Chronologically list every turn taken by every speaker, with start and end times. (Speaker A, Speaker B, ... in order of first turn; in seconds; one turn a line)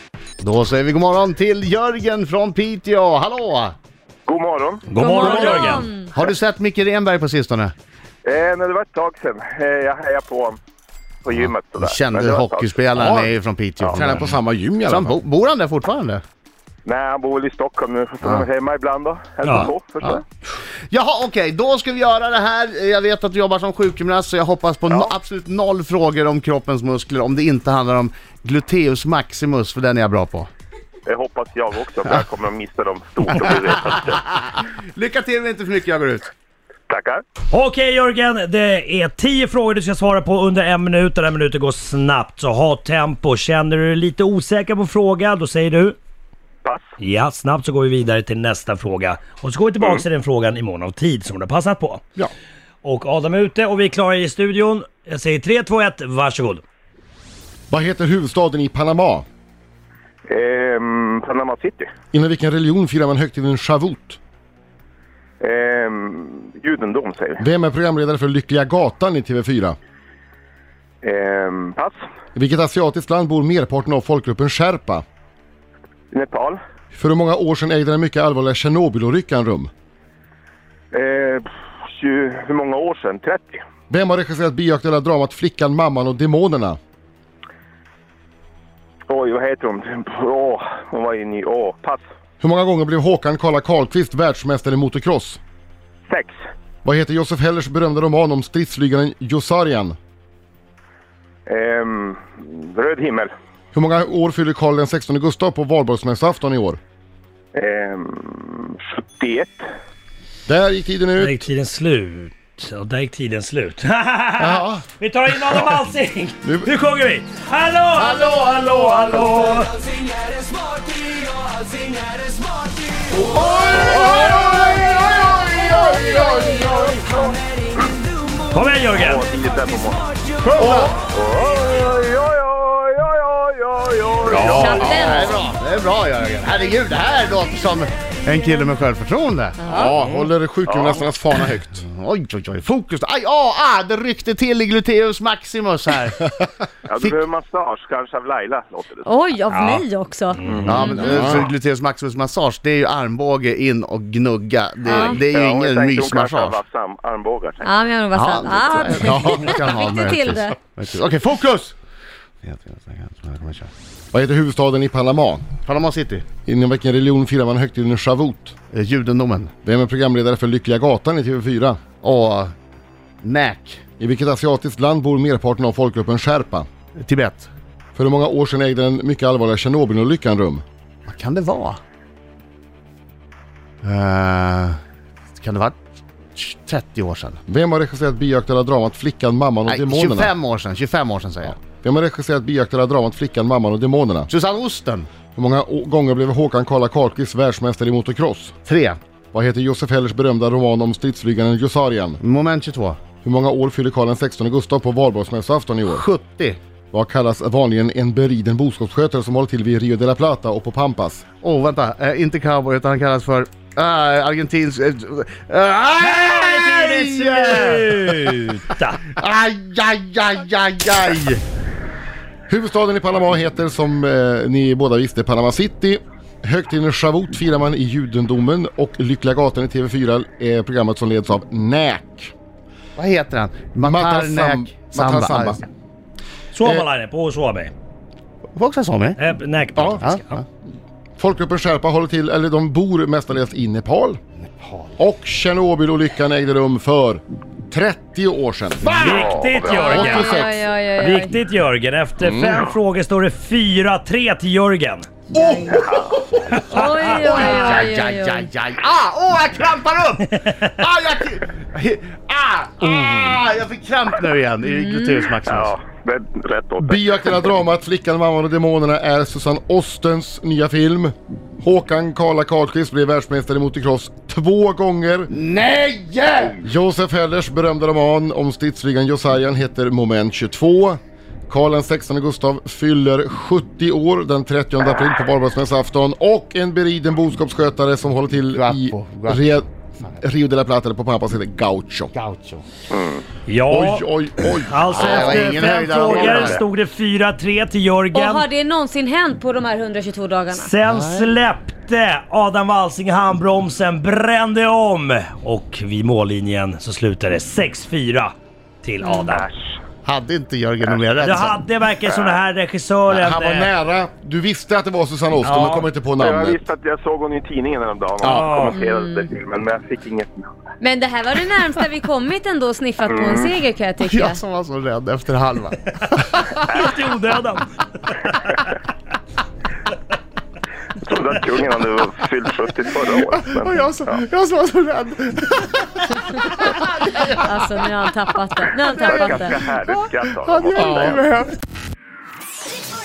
Speaker A: 0.4-3.8
Speaker B: 4.3-4.9
Speaker C: 4.9-5.9
Speaker D: 5.0-6.1
Speaker A: 5.5-7.7
Speaker B: 8.2-10.6
Speaker B: 11.2-12.7
Speaker A: 11.3-14.3
Speaker E: 12.9-13.3
Speaker E: 13.9-15.2
Speaker A: 14.8-16.2
Speaker B: 16.9-20.2
Speaker C: 19.4-19.7
Speaker A: 20.9-30.5
Speaker B: 31.1-34.2
Speaker A: 34.1-36.3
Speaker B: 36.9-37.2
Speaker C: 37.5-46.0
Speaker C: 47.0-52.0
Speaker C: 52.8-56.6
Speaker E: 57.7-59.3
Speaker B: 60.3-61.9
Speaker E: 62.1-64.2
Speaker B: 65.4-67.4
Speaker E: 67.4-69.8
Speaker B: 71.0-72.0
Speaker E: 72.3-75.0
Speaker B: 76.1-76.6
Speaker E: 76.9-79.7
Speaker B: 80.9-83.6
Speaker E: 83.9-86.8
Speaker B: 89.1-92.0
Speaker E: 92.4-95.4
Speaker B: 96.1-96.3
Speaker E: 96.8-100.0
Speaker B: 101.5-103.3
Speaker E: 103.7-106.8
Speaker B: 107.5-109.5
Speaker E: 110.5-111.5
Speaker C: 111.2-119.8
Speaker E: 114.4-114.9
Speaker E: 116.4-116.7
Speaker E: 123.3-124.6
Speaker A: 123.4-127.0
Speaker B: 123.6-124.5
Speaker C: 128.5-129.2
Speaker B: 129.0-130.1
Speaker A: 130.4-131.0
Speaker E: 130.6-130.9
Speaker B: 131.0-135.0
Speaker D: 134.3-135.4
Speaker C: 134.3-134.9
Speaker A: 134.4-139.6
Speaker E: 134.8-135.3
Speaker D: 139.6-140.2
Speaker E: 139.7-141.8
Speaker B: 140.7-141.0
Speaker A: 141.7-146.2
Speaker B: 146.9-149.1
Speaker D: 149.1-151.2
Speaker C: 149.5-149.8
Speaker C: 150.4-150.9
Speaker B: 150.5-150.9
Speaker A: 150.7-156.6
Speaker E: 151.0-151.5
Speaker D: 154.9-155.2
Speaker B: 155.0-157.7
Speaker D: 157.6-160.6
Speaker A: 158.1-161.8
Speaker E: 159.0-159.5
Speaker A: 162.4-163.7
Speaker E: 164.1-165.4
Speaker A: 165.7-166.3
Speaker E: 166.5-168.6
Speaker A: 168.7-169.5
Speaker E: 169.6-171.8
Speaker A: 172.0-172.6
Speaker A: 173.2-173.8
Speaker E: 174.0-176.7
Speaker A: 177.0-177.5
Speaker E: 177.9-180.6
Speaker A: 181.1-181.8
Speaker A: 183.8-184.8
Speaker A: 185.3-185.8
Speaker A: 186.3-187.4
Speaker E: 187.5-190.3
Speaker A: 189.7-191.6
Speaker E: 191.6-194.3
Speaker A: 194.3-195.1
Speaker E: 195.3-198.6
Speaker A: 198.7-199.0
Speaker E: 199.3-202.2
Speaker A: 202.2-203.0
Speaker E: 203.2-206.1
Speaker A: 205.9-206.6
Speaker E: 206.9-211.2
Speaker A: 211.4-218.4
Speaker C: 216.0-219.1
Speaker A: 219.1-221.4
Speaker E: 222.5-232.3
Speaker A: 233.0-235.7
Speaker E: 233.8-235.6
Speaker C: 236.5-237.7
Speaker A: 238.5-239.2
Speaker C: 239.2-240.4
Speaker E: 239.8-240.0
Speaker A: 240.0-240.4
Speaker E: 241.2-244.2
Speaker A: 244.6-245.0
Speaker E: 245.0-249.0
Speaker A: 248.8-250.1
Speaker C: 248.8-250.5
Speaker B: 249.0-249.9
Speaker E: 249.6-250.6
Speaker D: 249.7-251.3
Speaker C: 251.0-255.1
Speaker E: 252.2-252.7
Speaker D: 255.3-255.9
Speaker A: 255.6-265.7
Speaker E: 255.7-256.0
Speaker B: 255.8-256.1
Speaker D: 256.7-258.5
Speaker D: 264.7-265.3
Speaker B: 265.5-267.1
Speaker E: 266.8-275.3
Speaker A: 275.3-276.7
Speaker E: 276.6-289.7
Speaker A: 288.5-289.5
Speaker E: 290.2-292.1
Speaker A: 292.1-292.6
Speaker B: 292.9-293.2
Speaker C: 293.5-294.1
Speaker E: 293.7-295.6
Speaker C: 294.7-298.5
Speaker A: 294.9-296.6
Speaker B: 295.9-296.6
Speaker D: 298.1-300.7
Speaker C: 300.5-309.5
Speaker A: 300.9-301.3
Speaker D: 309.0-309.3
Speaker B: 309.3-309.8
Speaker A: 310.1-311.6
Speaker C: 311.1-313.7
Speaker B: 312.1-312.4
Speaker E: 313.1-316.6
Speaker C: 315.4-315.9
Speaker B: 316.2-320.4
Speaker C: 318.2-318.8
Speaker D: 318.7-319.3
Speaker D: 320.8-324.4
Speaker B: 323.1-323.5
Speaker A: 324.1-325.8
Speaker C: 326.1-328.2
Speaker B: 331.0-334.2
Speaker A: 333.3-337.7
Speaker D: 337.3-339.5
Speaker B: 338.9-341.2
Speaker A: 339.1-341.5
Speaker E: 340.8-341.1